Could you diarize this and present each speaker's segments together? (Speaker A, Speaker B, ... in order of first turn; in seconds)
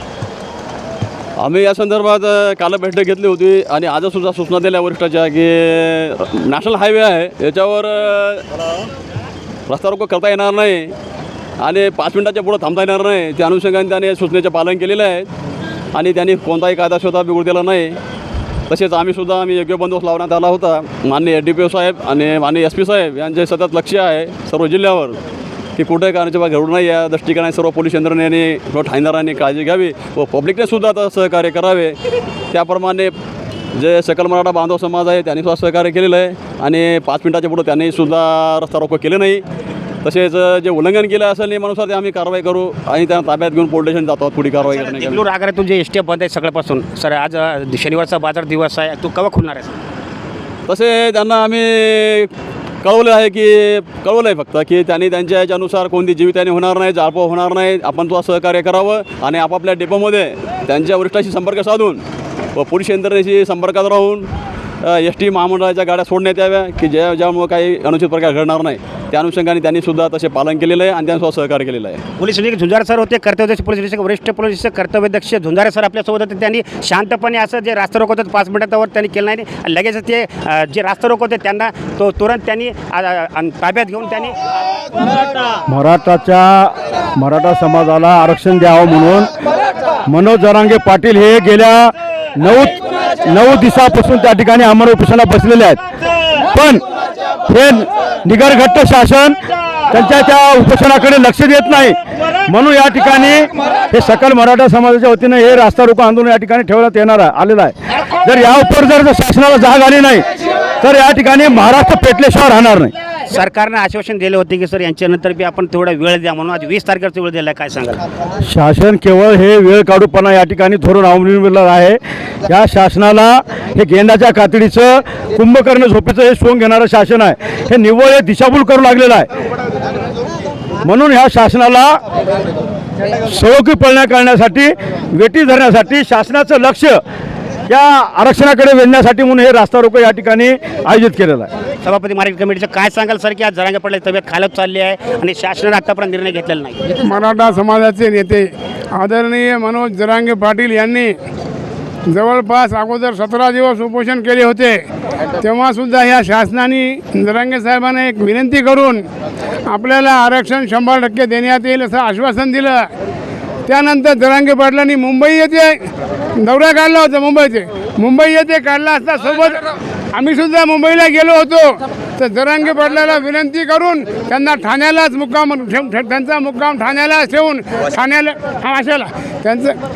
Speaker A: 1.4-8.4, 9.7-10.9, 11.6-15.3, 15.9-18.0, 18.7-25.2, 25.8-31.9, 32.5-33.1, 33.8-39.4, 40.0-45.2, 50.7-52.3, 52.8-62.0, 62.6-64.3, 64.9-72.0
Speaker B: 44.6-49.8, 72.2-84.3, 113.3-118.0, 141.8-146.9
Speaker C: 85.7-89.3, 90.1-95.8, 96.5-96.8, 97.5-99.4, 99.9-102.0, 102.5-110.2, 110.8-112.9, 118.5-129.3, 130.8-132.0, 133.3-137.0, 137.7-141.5
Speaker D: 147.0-151.2, 152.1-154.8, 155.4-159.0, 159.7-162.9, 163.7-165.8, 166.4-169.6, 170.1-179.8